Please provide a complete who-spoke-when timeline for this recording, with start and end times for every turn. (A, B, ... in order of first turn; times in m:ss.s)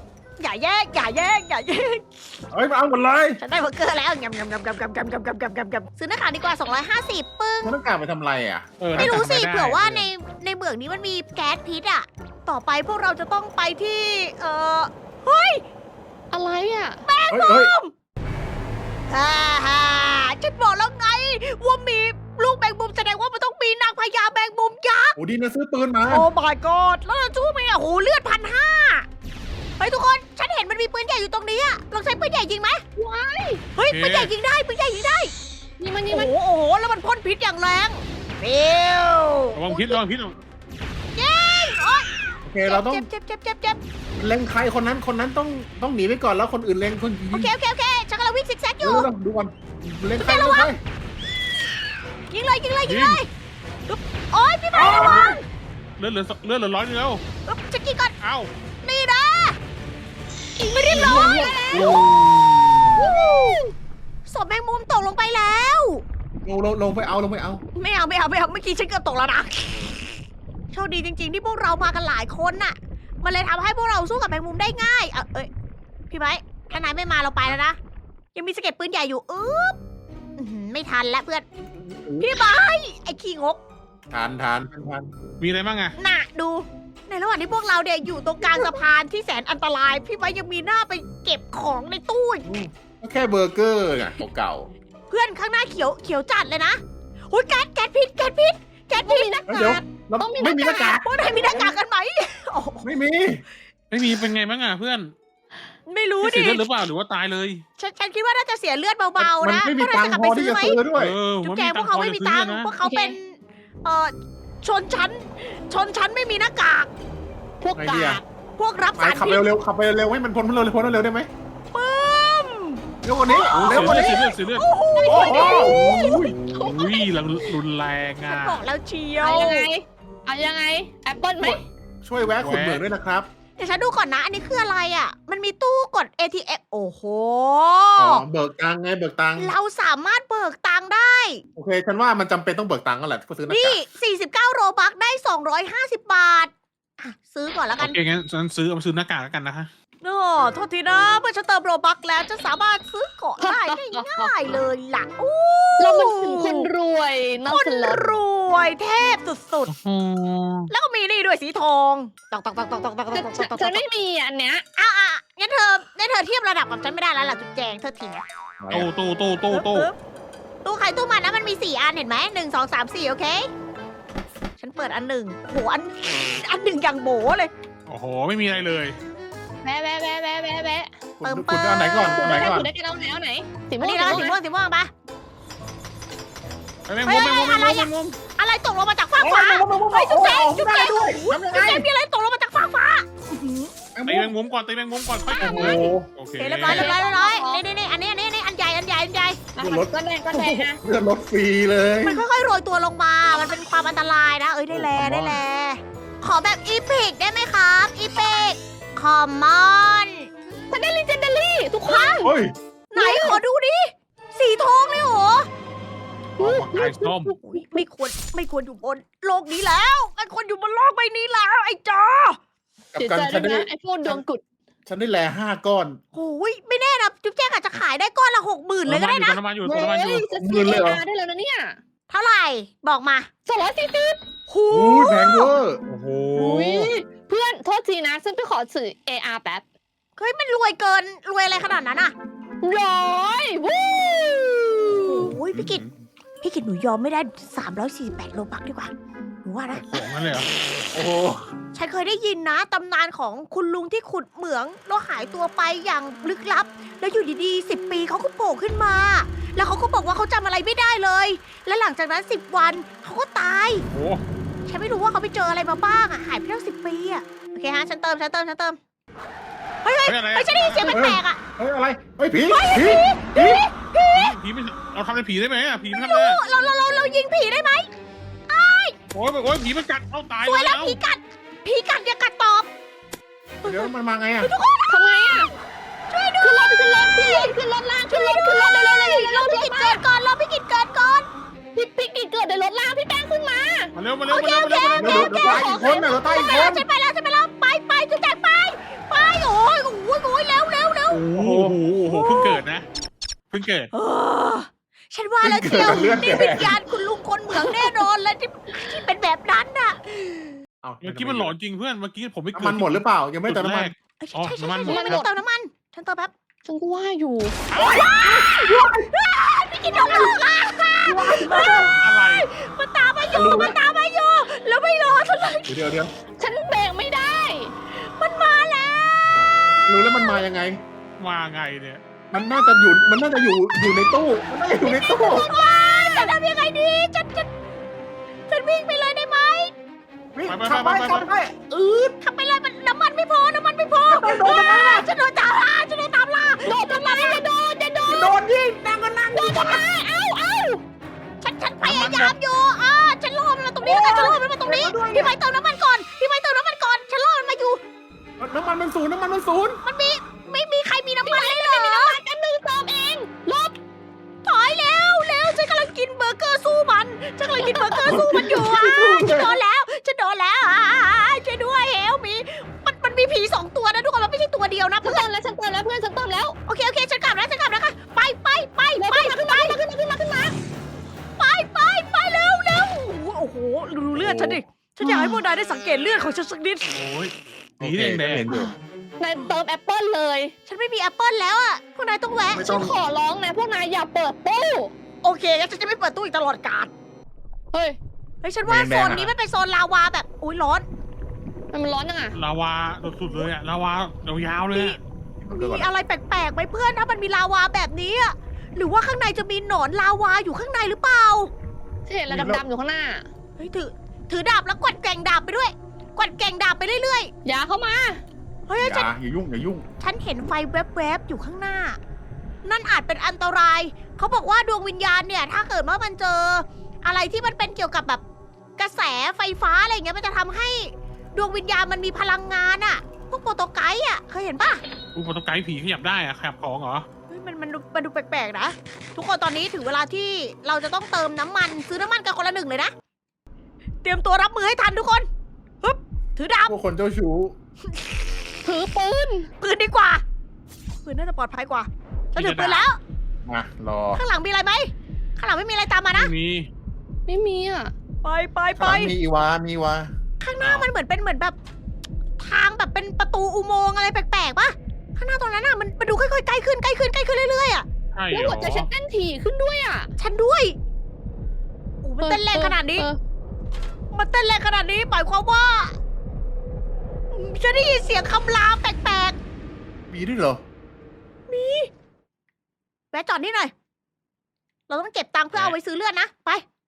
0:00.4-0:02.4 A
0:02.5-0:03.4 B
0:03.4-0:07.7 A
0:07.6-0:09.2 B
0:08.8-0:10.1 C
0:09.0-0:15.6 A
0:16.3-0:17.0 D
0:17.0-0:17.9 A
0:17.3-0:17.7 B
0:19.1-0:25.2 A
0:25.2-0:26.3 B
0:26.1-0:29.0 A
0:29.8-0:32.8 A
0:33.0-0:33.6 D
0:33.7-0:35.3 A
0:33.9-0:34.3 C
0:35.8-0:36.3 D
0:36.1-0:40.0 A
0:39.5-0:40.4 C
0:41.1-0:42.1 A
0:42.4-0:43.0 B
0:42.6-0:43.8 A
0:44.2-0:47.5 B
0:47.3-0:49.1 A
0:48.8-0:50.8 B
0:50.2-0:50.7 A
0:52.3-0:53.3 A
0:52.8-0:53.2 C
0:53.9-0:55.4 A
0:54.7-0:55.4 B
0:56.0-0:57.2 C
0:57.4-0:58.1 A
0:58.2-0:58.5 C
0:58.8-0:59.6 A
1:00.6-1:02.0 A
1:00.9-1:03.2 B
1:01.7-1:02.3 C
1:03.0-1:03.7 A
1:04.2-1:06.0 A
1:06.4-1:07.6 B
1:07.7-1:10.0 A
1:10.7-1:15.5 A
1:16.1-1:17.8 A
1:18.3-1:19.8 A
1:20.4-1:21.4 A
1:21.7-1:22.4 B
1:22.2-1:23.6 A
1:24.1-1:25.1 B
1:25.4-1:25.9 C
1:25.9-1:32.5 A
1:32.4-1:34.7 B
1:35.1-1:39.4 A
1:39.0-1:41.0 D
1:39.5-1:41.7 B
1:41.0-1:42.9 A
1:42.8-1:43.4 B
1:43.9-1:45.1 C
1:45.9-1:46.6 A
1:46.2-1:47.6 C
1:47.8-1:50.8 A
1:49.2-1:51.2 B
1:50.9-1:52.7 C
1:51.4-1:56.9 A
1:52.8-1:53.2 D
1:57.6-1:58.2 D
1:57.7-1:58.2 B
1:58.0-1:59.4 A
1:59.0-2:01.3 B
2:01.7-2:06.1 A
2:03.0-2:04.2 B
2:03.5-2:05.3 C
2:05.0-2:07.1 D
2:05.1-2:06.4 B
2:06.4-2:08.6 C
2:08.2-2:09.7 A
2:09.2-2:11.6 D
2:11.4-2:13.3 B
2:12.4-2:12.8 C
2:13.6-2:18.2 A
2:18.0-2:19.5 B
2:19.4-2:21.4 A
2:21.5-2:23.8 B
2:23.5-2:28.0 A
2:27.8-2:29.7 C
2:30.0-2:36.7 A
2:33.4-2:34.6 D
2:35.8-2:38.2 D
2:37.5-2:39.7 A
2:39.7-2:40.7 C
2:40.7-2:43.8 A
2:43.1-2:44.6 D
2:44.8-2:48.2 A
2:48.6-2:48.9 B
2:48.7-2:49.9 C
2:49.5-2:49.9 A
2:50.6-2:53.5 A
2:54.6-2:57.5 A
2:57.8-2:59.0 C
2:59.6-3:00.9 D
3:01.2-3:02.7 B
3:01.2-3:02.2 A
3:02.1-3:04.4 D
3:02.2-3:02.5 C
3:03.8-3:04.9 A
3:06.8-3:08.2 C
3:07.0-3:13.7 A
3:09.2-3:11.8 B
3:13.9-3:14.3 B
3:14.0-3:16.9 C
3:15.3-3:19.4 A
3:15.4-3:16.1 B
3:16.7-3:17.6 D
3:19.5-3:20.8 D
3:19.6-3:22.2 B
3:22.0-3:30.3 A
3:24.7-3:25.4 B
3:30.7-3:32.3 D
3:31.8-3:32.3 A
3:32.2-3:32.5 B
3:32.9-3:35.5 A
3:33.0-3:33.4 D
3:36.4-3:37.6 D
3:36.4-3:37.3 C
3:37.4-3:42.4 A
3:42.9-3:44.2 B
3:43.0-3:44.4 D
3:44.8-3:46.0 B
3:46.1-3:49.4 A
3:48.8-3:50.3 C
3:49.6-3:51.8 D
3:49.7-3:51.0 B
3:52.1-3:53.3 A
3:53.4-3:54.2 D
3:54.5-3:55.5 A
3:54.7-3:55.8 B
3:55.9-3:56.9 C
3:56.3-3:59.6 D
4:00.2-4:02.1 A
4:02.6-4:05.3 D
4:05.0-4:05.8 A
4:05.5-4:05.9 B
4:06.4-4:08.9 A
4:09.4-4:10.0 A
4:09.7-4:10.5 C
4:10.9-4:11.5 B
4:11.7-4:23.8 A
4:23.9-4:24.2 C
4:24.6-4:28.8 A
4:29.8-4:31.4 A
4:30.0-4:30.9 C
4:30.9-4:33.6 B
4:32.5-4:34.3 A
4:34.1-4:36.4 C
4:35.9-4:37.9 A
4:38.5-4:39.0 A
4:39.1-4:41.0 C
4:40.4-4:42.7 A
4:43.6-4:45.5 A
4:43.6-4:44.5 B
4:44.9-4:45.5 D
4:46.1-4:47.6 A
4:46.4-4:50.0 D
4:48.1-4:51.3 A
4:51.7-4:53.9 D
4:53.9-4:55.2 C
4:54.3-5:01.2 A
4:54.8-4:56.0 D
4:55.0-4:56.8 B
5:01.1-5:02.9 C
5:01.3-5:01.8 B
5:02.0-5:02.6 A
5:03.5-5:03.9 C
5:03.9-5:10.6 A
5:05.4-5:06.8 B
5:07.5-5:08.0 D
5:10.8-5:11.5 B
5:11.0-5:15.2 C
5:12.5-5:13.9 B
5:14.2-5:16.3 A
5:14.9-5:15.3 D
5:16.6-5:17.6 D
5:17.7-5:18.1 C
5:17.8-5:25.7 A
5:17.9-5:19.1 B
5:20.0-5:20.3 B
5:21.0-5:21.9 B
5:21.7-5:22.7 C
5:23.3-5:23.8 B
5:25.6-5:26.1 B
5:26.4-5:27.7 D
5:27.9-5:29.3 A
5:29.8-5:30.8 B
5:31.2-5:32.0 C
5:32.3-5:35.5 B
5:34.8-5:37.5 A
5:38.5-5:39.7 A
5:40.3-5:42.2 B
5:40.5-5:41.3 C
5:42.2-5:47.4 A
5:44.1-5:45.1 B
5:46.7-5:48.4 D
5:48.0-5:49.8 B
5:49.3-5:50.8 D
5:51.4-5:57.8 A
5:51.8-5:52.4 C
5:53.8-5:55.3 B
5:58.4-5:59.8 B
5:59.8-6:02.2 A
6:01.2-6:03.8 D
6:04.4-6:15.3 A
6:07.6-6:08.1 D
6:08.0-6:09.6 B
6:15.0-6:16.6 D
6:16.6-6:19.8 A
6:19.0-6:20.6 D
6:21.4-6:27.0 A
6:24.1-6:24.6 B
6:25.0-6:25.4 D
6:26.9-6:28.5 C
6:27.8-6:28.7 B
6:28.5-6:30.5 D
6:30.6-6:32.7 A
6:32.5-6:32.9 B
6:32.6-6:34.9 D
6:35.2-6:36.9 A
6:37.7-6:38.0 D
6:38.4-6:40.8 A
6:38.6-6:39.3 B
6:41.7-6:42.4 D
6:42.3-6:45.0 C
6:44.7-6:51.5 A
6:45.4-6:45.9 B
6:52.0-6:53.3 D
6:52.3-6:52.6 B
6:53.6-6:57.3 A
6:57.4-6:58.2 D
6:58.7-6:59.1 A
6:58.8-6:59.8 B
7:00.0-7:02.0 A
7:02.6-7:08.2 A
7:08.8-7:14.8 A
7:15.1-7:17.0 C
7:17.3-7:22.9 A
7:24.0-7:25.3 A
7:25.8-7:26.8 A
7:26.7-7:27.5 B
7:28.6-7:29.5 D
7:29.6-7:30.2 A
7:31.0-7:33.0 A
7:32.3-7:32.8 C
7:33.4-7:34.2 B
7:34.1-7:36.3 A
7:36.1-7:36.7 C
7:37.3-7:37.9 D
7:38.2-7:39.1 A
7:38.8-7:40.1 B
7:40.4-7:41.6 A
7:40.6-7:40.9 C
7:42.4-7:47.8 A
7:48.1-7:48.9 C
7:48.3-7:50.1 D
7:50.2-7:50.8 A
7:52.0-7:53.1 A
7:52.2-7:53.2 D
7:54.1-7:56.0 A
7:57.3-7:59.4 A
8:00.1-8:00.6 B
8:01.5-8:01.9 A
8:03.1-8:03.7 A
8:04.9-8:06.6 A